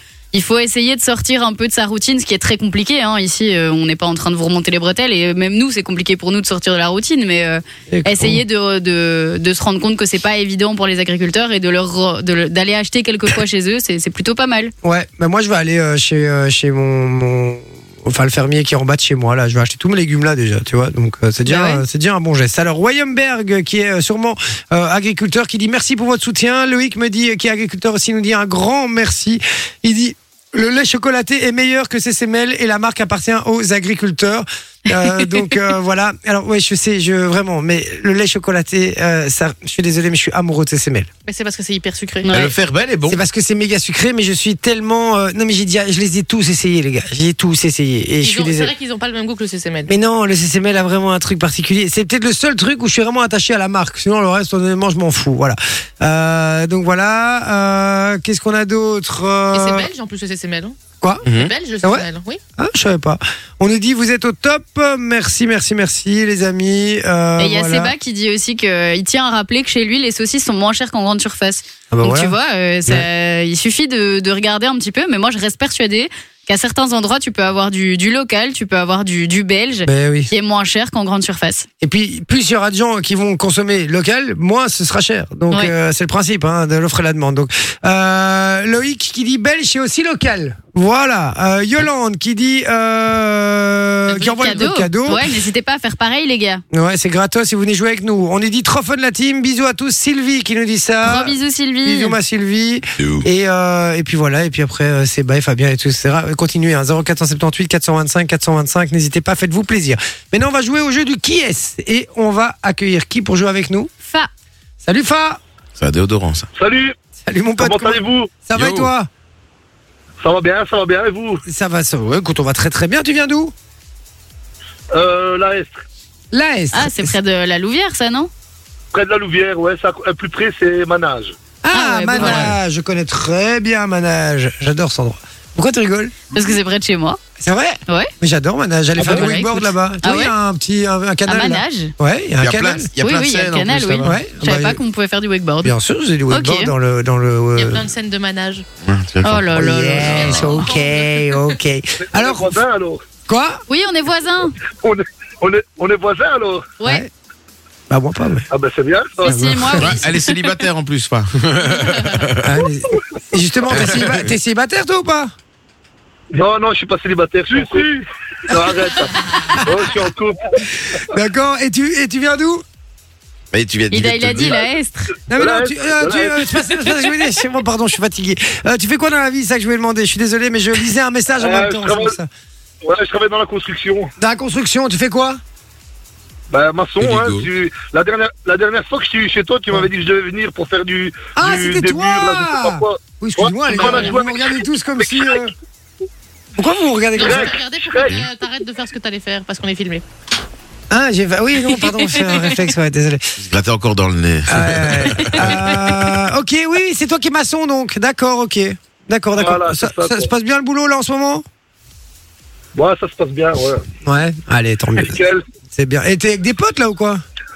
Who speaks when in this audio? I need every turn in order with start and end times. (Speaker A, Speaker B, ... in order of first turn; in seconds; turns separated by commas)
Speaker A: 0.3-14.7, Speaker B: 7.9-8.4, Speaker B: 14.8-41.1, Speaker A: 21.4-21.8, Speaker C: 41.3-42.4, Speaker A: 42.2-42.5, Speaker D: 42.3-43.2, Speaker B: 43.1-48.7, Speaker C: 48.2-49.9, Speaker B: 49.9-59.9, Speaker C: 59.5-62.4, Speaker D: 61.2-61.5, Speaker B: 62.6-67.9, Speaker A: 67.4-81.7, Speaker B: 71.9-73.1, Speaker B: 79.9-80.3, Speaker B: 81.8-95.3, Speaker A: 94.1-96.6, Speaker B: 96.7-113.9, Speaker A: 101.0-102.2, Speaker D: 103.0-103.3, Speaker B: 114.8-115.4, Speaker D: 115.8-116.5, Speaker E: 116.6-117.0, Speaker B: 117.2-119.1, Speaker E: 117.6-118.4, Speaker D: 118.5-118.9, Speaker E: 120.2-121.4, Speaker B: 121.5-123.5, Speaker E: 124.9-125.8, Speaker B: 126.3-127.2, Speaker A: 126.7-128.3, Speaker E: 128.9-131.4, Speaker B: 131.6-136.2, Speaker A: 131.7-132.6, Speaker D: 132.2-132.6, Speaker A: 136.3-137.2, Speaker B: 137.4-142.9, Speaker A: 139.0-140.3, Speaker A: 141.3-141.9, Speaker D: 142.4-144.2, Speaker A: 143.0-145.8, Speaker B: 144.0-144.8, Speaker B: 145.6-147.9, Speaker A: 146.3-146.7, Speaker C: 147.6-148.7, Speaker D: 148.8-149.7, Speaker A: 149.2-150.9, Speaker B: 149.5-152.6, Speaker D: 150.2-150.4, Speaker C: 150.3-150.7, Speaker E: 152.0-153.0, Speaker B: 153.3-153.6, Speaker A: 153.7-154.6, Speaker E: 154.8-156.6, Speaker A: 156.8-157.1, Speaker B: 156.8-157.1, Speaker B: 157.9-158.5, Speaker E: 158.5-159.4, Speaker A: 159.2-160.5, Speaker B: 159.2-160.0, Speaker D: 159.8-162.6, Speaker B: 162.4-165.3, Speaker D: 163.7-164.3, Speaker E: 166.3-170.6, Speaker B: 171.0-172.6, Speaker D: 173.5-174.6, Speaker A: 173.9-175.2, Speaker E: 175.3-176.7, Speaker B: 175.3-182.3, Speaker E: 181.4-182.2, Speaker E: 182.8-184.1, Speaker B: 184.2-185.4, Speaker E: 186.5-195.5, Speaker D: 187.0-187.5, Speaker B: 191.4-195.5, Speaker C: 193.7-194.2, Speaker B: 196.6-197.6, Speaker C: 197.2-200.0, Speaker E: 197.2-198.2, Speaker B: 200.9-203.3, Speaker D: 203.4-206.1, Speaker B: 204.5-211.4, Speaker E: 209.3-210.3, Speaker E: 212.7-213.8, Speaker B: 214.0-215.2, Speaker E: 214.9-215.4, Speaker B: 215.7-217.2